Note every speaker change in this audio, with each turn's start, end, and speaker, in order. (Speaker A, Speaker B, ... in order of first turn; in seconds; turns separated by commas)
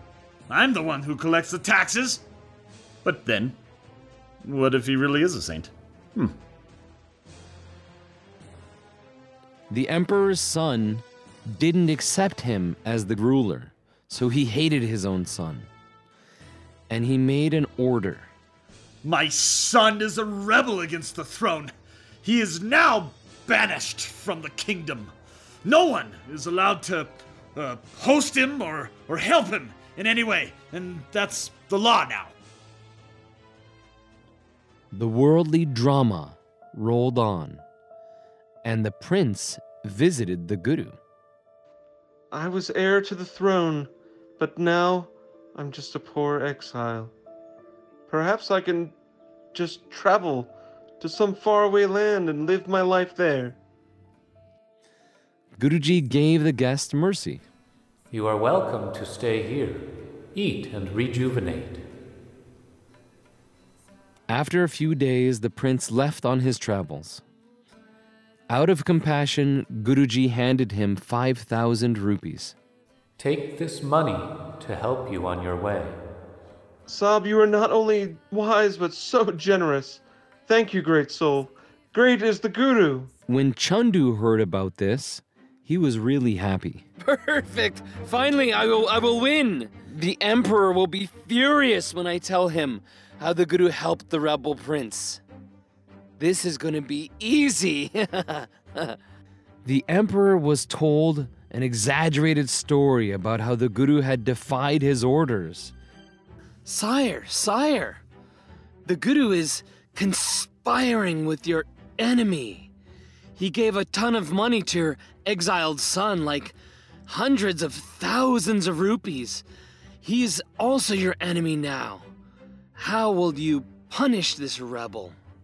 Speaker A: 0.5-2.2, Speaker A: 3.0-3.6, Speaker A: 4.4-6.4, Speaker B: 9.7-15.7, Speaker B: 16.9-18.3, Speaker A: 19.0-25.1, Speaker A: 25.6-32.4, Speaker B: 34.9-37.6, Speaker B: 38.6-41.0, Speaker C: 42.3-47.1, Speaker C: 48.1-49.0, Speaker C: 49.5-53.6, Speaker B: 55.6-57.4, Speaker D: 58.1-61.9, Speaker B: 64.3-67.2, Speaker B: 68.5-72.6, Speaker D: 73.2-76.0, Speaker C: 76.9-83.1, Speaker B: 83.3-86.9, Speaker E: 87.0-95.2, Speaker E: 96.2-99.0, Speaker B: 99.7-105.7, Speaker E: 106.7-108.0, Speaker B: 108.9-109.6, Speaker E: 108.9-112.7, Speaker B: 112.4-112.6, Speaker B: 113.4-113.9, Speaker E: 113.5-116.5, Speaker E: 117.1-119.4, Speaker B: 119.0-119.4, Speaker E: 120.0-122.0, Speaker E: 122.8-125.2